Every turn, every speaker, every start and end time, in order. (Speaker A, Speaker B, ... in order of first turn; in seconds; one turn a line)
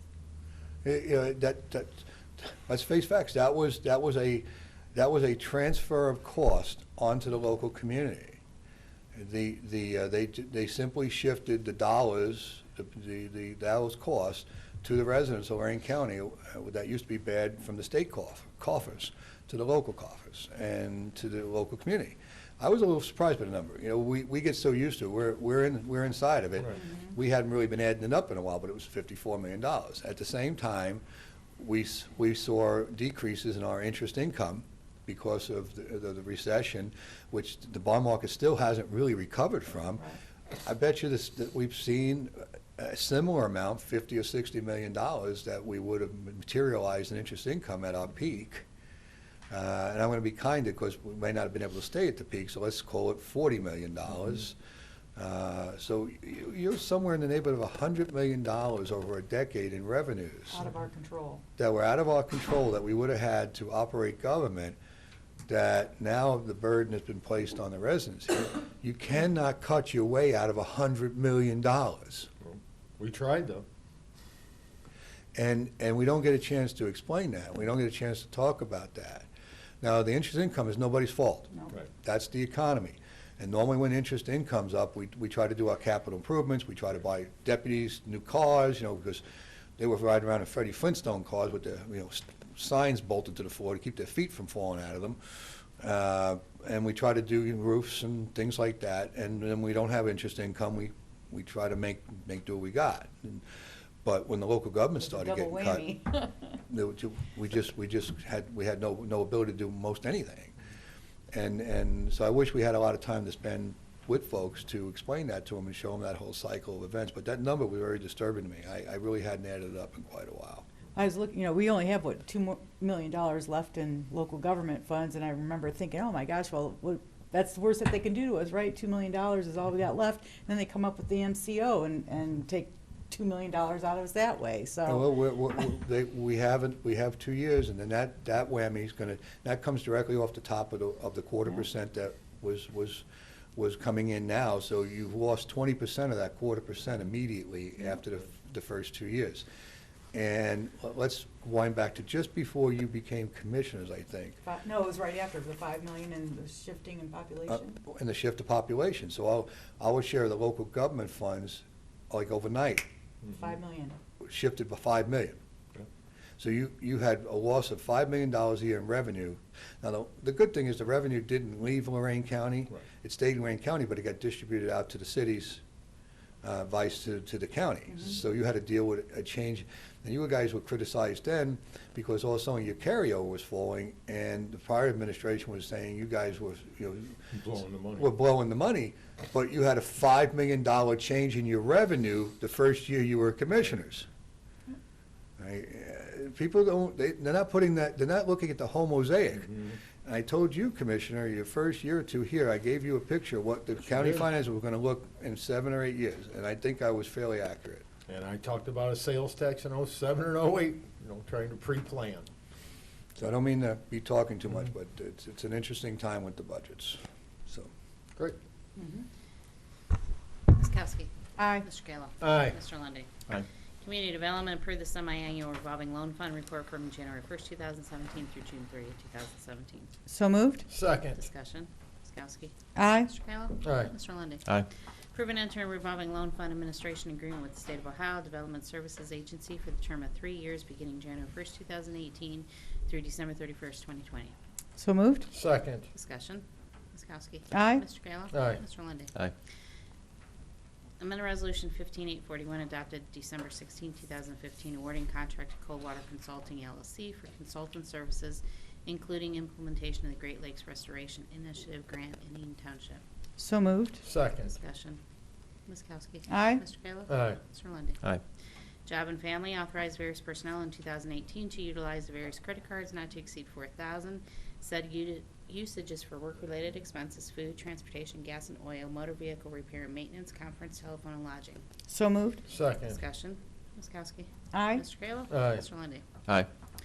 Speaker A: 0.8-8.4
Speaker A: 9.1-31.0
Speaker A: 31.6-40.1
Speaker A: 40.6-48.6
Speaker A: 49.5-54.6
Speaker A: 55.2-60.6
Speaker B: 60.5-61.4
Speaker A: 61.6-64.8
Speaker A: 65.5-72.3
Speaker C: 72.4-73.7
Speaker A: 75.3-79.3
Speaker A: 79.8-89.2
Speaker A: 89.8-95.2
Speaker A: 95.8-103.4
Speaker A: 104.0-106.0
Speaker B: 105.0-106.3
Speaker A: 106.7-110.5
Speaker A: 111.3-120.7
Speaker B: 121.0-135.1
Speaker A: 134.9-143.0
Speaker A: 143.6-149.4
Speaker A: 150.1-154.4
Speaker B: 154.4-157.8
Speaker A: 157.5-162.9
Speaker C: 163.2-163.6
Speaker B: 163.3-164.0
Speaker A: 164.2-165.4
Speaker A: 166.4-175.6
Speaker A: 176.4-187.2
Speaker C: 187.3-188.1
Speaker A: 188.0-194.1
Speaker A: 195.4-207.9
Speaker C: 199.4-199.8
Speaker C: 203.8-204.3
Speaker C: 208.1-212.3
Speaker A: 213.2-217.7
Speaker B: 218.8-219.1
Speaker D: 220.5-223.2
Speaker B: 221.4-221.7
Speaker C: 222.2-222.6
Speaker D: 223.8-229.9
Speaker B: 230.1-230.7
Speaker C: 230.7-231.2
Speaker D: 231.2-234.5
Speaker B: 232.8-233.1
Speaker C: 233.6-233.9
Speaker D: 235.1-244.3
Speaker B: 244.8-245.3
Speaker C: 245.3-245.9
Speaker D: 245.9-246.4
Speaker D: 246.9-249.1
Speaker B: 247.5-247.8
Speaker C: 248.3-248.6
Speaker D: 251.0-263.0
Speaker B: 263.4-264.0
Speaker C: 264.0-264.6
Speaker D: 264.4-265.0
Speaker D: 265.7-268.0
Speaker B: 266.3-266.6
Speaker C: 267.1-267.4
Speaker D: 268.9-281.6
Speaker B: 281.9-282.4
Speaker C: 282.5-283.0
Speaker D: 282.8-286.1
Speaker B: 284.5-284.8
Speaker C: 285.3-285.7